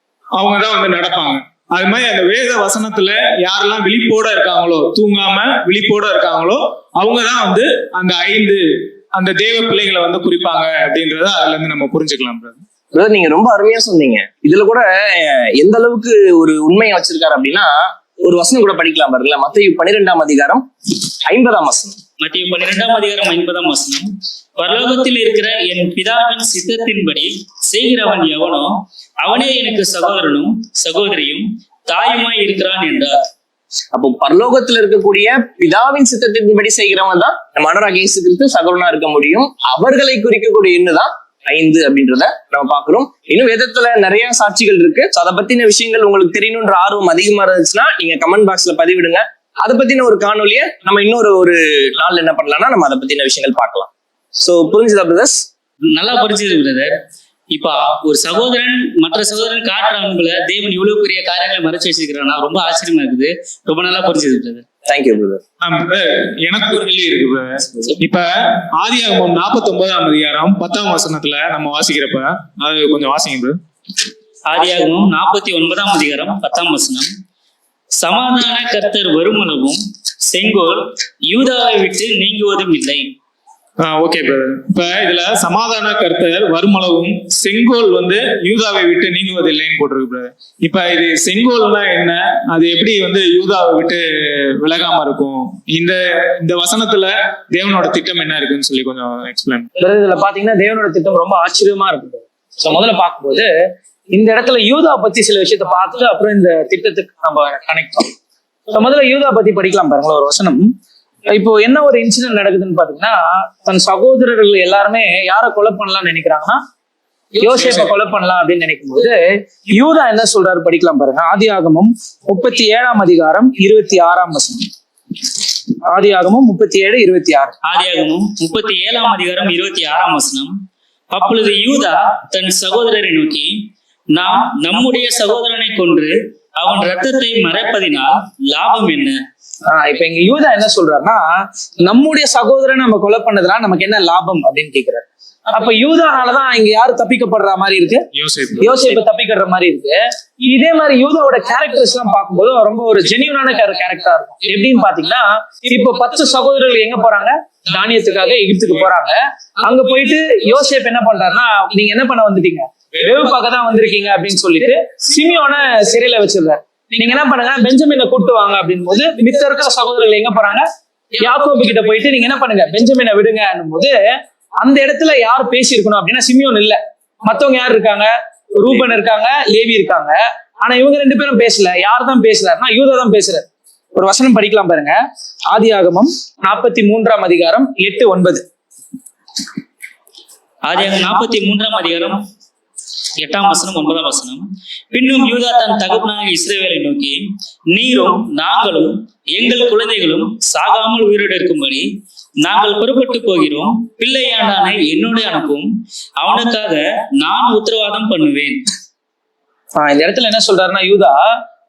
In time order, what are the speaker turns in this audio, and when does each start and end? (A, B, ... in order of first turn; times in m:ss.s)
0:00.4-0:12.6 A
0:12.9-0:22.0 B
0:22.2-0:33.2 C
0:33.9-0:55.4 B
0:55.9-0:56.9 C
0:57.5-1:04.6 C
1:04.8-1:05.4 B
1:05.6-1:13.6 A
1:14.5-1:17.1 C
1:18.0-1:23.0 C
1:23.8-1:34.0 A
1:34.6-1:39.7 A
1:39.8-1:43.5 D
1:44.1-1:48.1 D
1:48.7-1:50.7 D
1:51.3-1:56.6 D
1:57.4-2:04.7 D
2:05.8-2:07.5 D
2:07.6-2:10.5 C
2:11.1-2:13.5 C
2:14.1-2:19.2 C
2:19.6-2:21.3 D
2:21.8-2:28.0 D
2:28.1-2:28.8 A
2:28.6-2:50.6 D
2:51.2-2:54.0 D
2:54.6-3:05.0 D
3:05.5-3:08.4 D
3:10.6-3:12.2 C
3:13.2-3:21.9 C
3:22.4-3:28.6 C
3:29.7-3:31.2 D